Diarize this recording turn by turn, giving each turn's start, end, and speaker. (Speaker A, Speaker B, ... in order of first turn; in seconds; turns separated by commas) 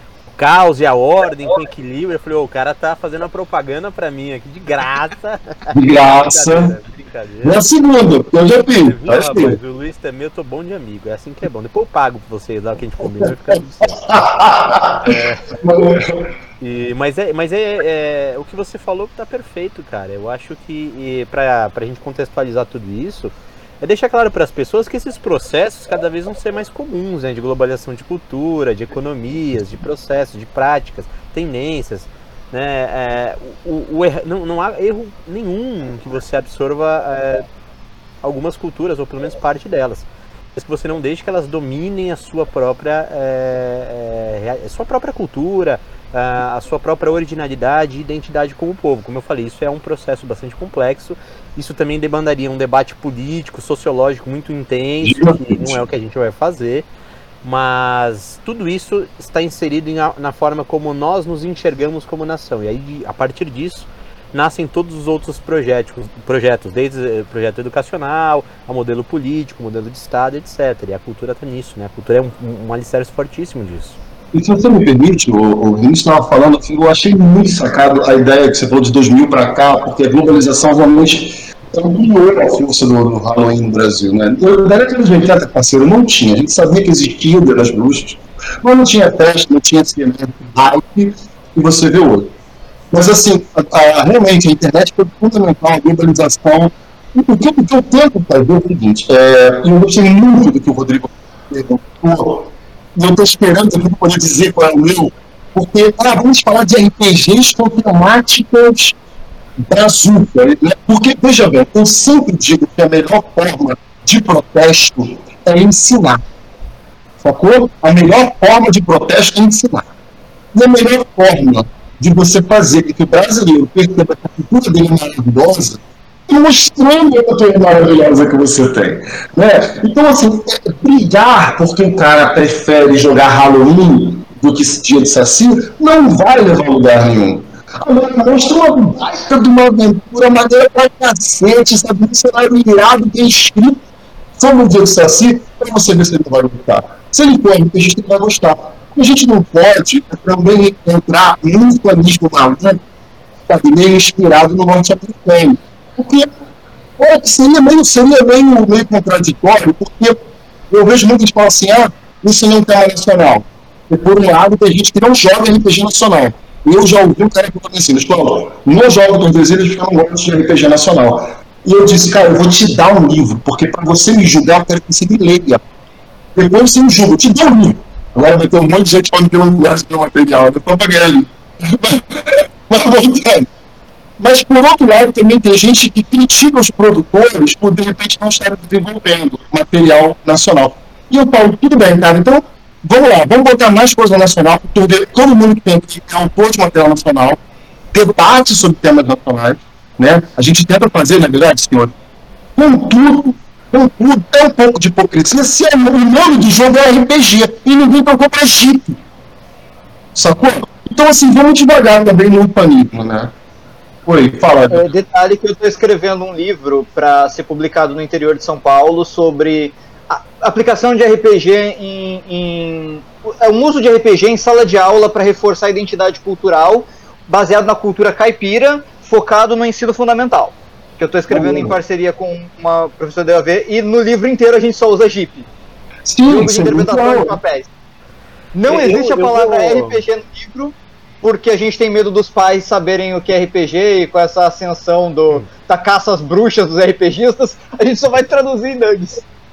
Speaker A: 0.3-7.6, Speaker B: 5.7-6.7, Speaker B: 7.4-9.6, Speaker A: 8.8-14.0, Speaker B: 13.8-16.3, Speaker A: 15.0-15.5, Speaker A: 16.6-37.4, Speaker A: 38.2-56.9, Speaker B: 55.0-55.8, Speaker A: 57.4-74.0, Speaker B: 74.3-92.3, Speaker B: 92.9-109.0, Speaker B: 109.6-116.2, Speaker B: 117.2-119.8, Speaker B: 120.5-143.8, Speaker B: 144.4-152.8, Speaker B: 153.5-156.3, Speaker B: 157.0-160.2, Speaker B: 160.7-175.6, Speaker B: 176.3-183.5, Speaker B: 184.2-197.4, Speaker B: 197.9-201.9, Speaker B: 202.6-209.0, Speaker B: 210.1-213.3, Speaker B: 214.1-214.9, Speaker C: 214.7-235.5, Speaker B: 231.3-231.8, Speaker B: 236.1-237.4, Speaker C: 236.3-237.7, Speaker C: 238.5-249.2, Speaker A: 238.7-240.0